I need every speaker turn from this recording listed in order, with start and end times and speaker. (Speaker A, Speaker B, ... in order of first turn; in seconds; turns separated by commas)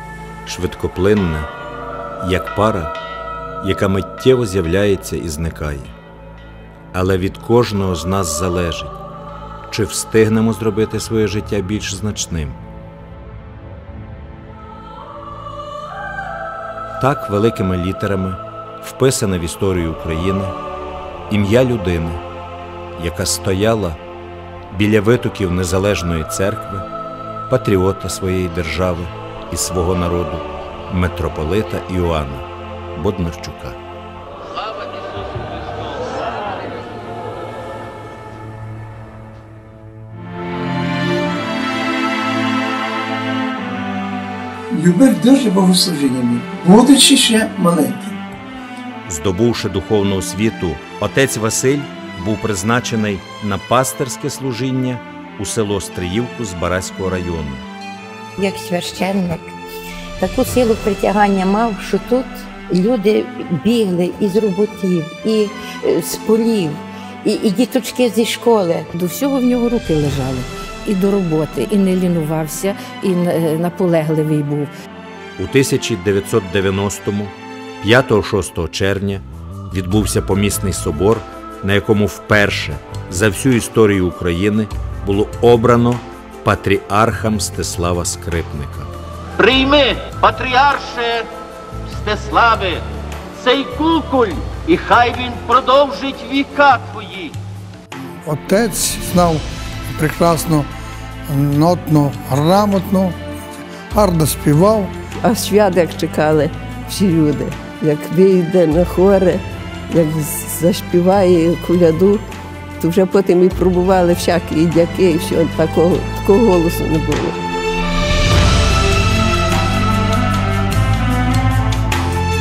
Speaker A: 0.5-1.5, Speaker A: 2.2-2.9, Speaker A: 3.6-5.9, Speaker A: 6.9-8.9, Speaker A: 9.7-12.6, Speaker A: 17.0-20.5, Speaker A: 21.3-22.2, Speaker A: 22.9-24.0, Speaker A: 24.7-26.8, Speaker A: 27.5-33.8, Speaker B: 44.7-48.2, Speaker A: 49.1-57.6, Speaker C: 58.4-59.5, Speaker C: 60.2-68.8, Speaker D: 68.9-74.7, Speaker A: 75.4-88.9, Speaker E: 89.4-91.2, Speaker E: 91.9-92.8, Speaker E: 93.4-97.3, Speaker B: 98.2-100.7, Speaker B: 101.3-103.2, Speaker B: 103.9-104.9, Speaker F: 105.2-112.2, Speaker F: 112.8-117.4